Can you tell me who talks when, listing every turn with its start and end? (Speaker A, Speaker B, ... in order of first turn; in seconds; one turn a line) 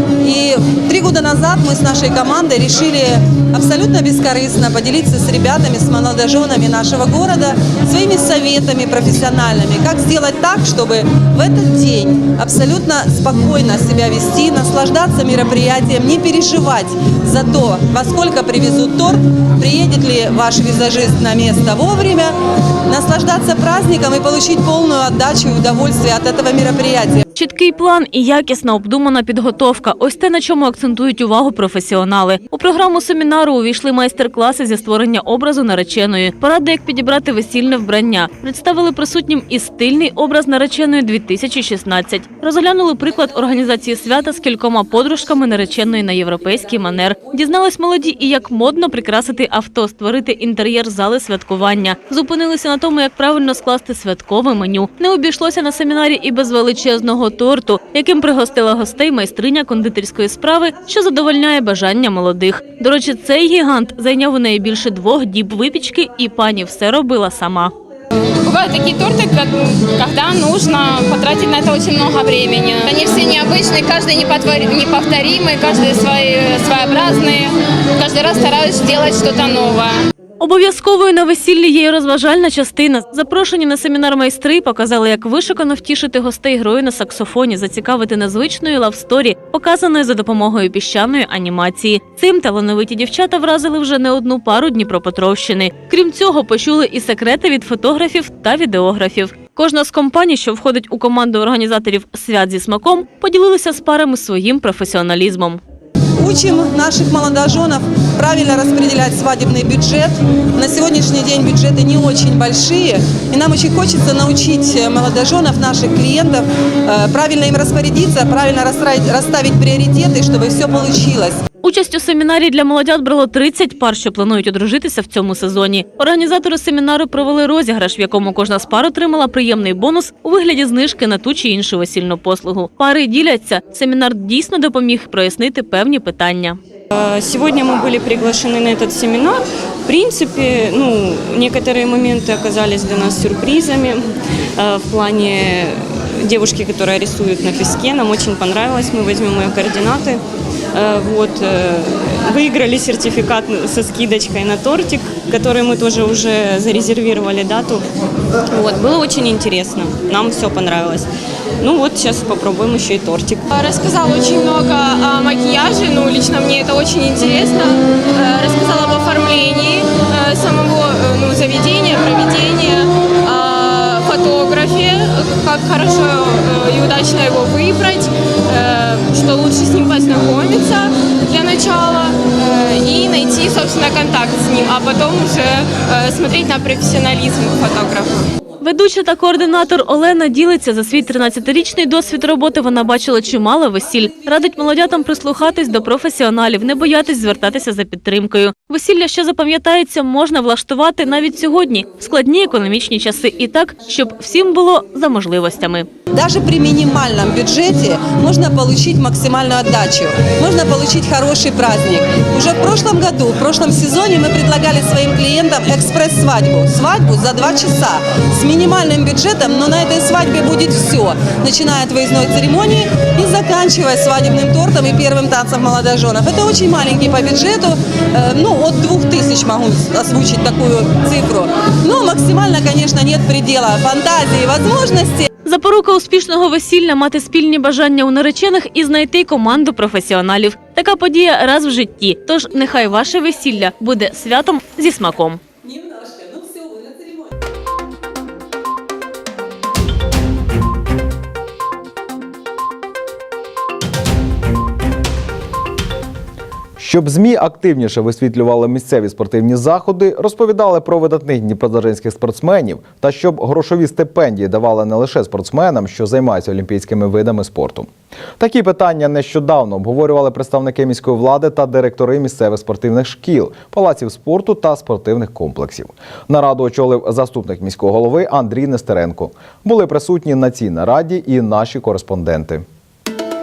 Speaker A: 0.2-22.3
Speaker A: 22.9-27.2
Speaker B: 27.3-67.7
Speaker C: 68.4-80.0
Speaker B: 80.4-105.6
Speaker A: 106.2-121.4
Speaker B: 121.6-136.6
Speaker D: 136.9-150.2
Speaker D: 150.7-157.8
Speaker D: 158.5-161.1
Speaker D: 161.6-163.5
Speaker C: 163.5-188.3
Speaker B: 188.6-205.9
Speaker A: 206.1-235.3
Speaker B: 235.4-245.4
Speaker E: 256.8-282.6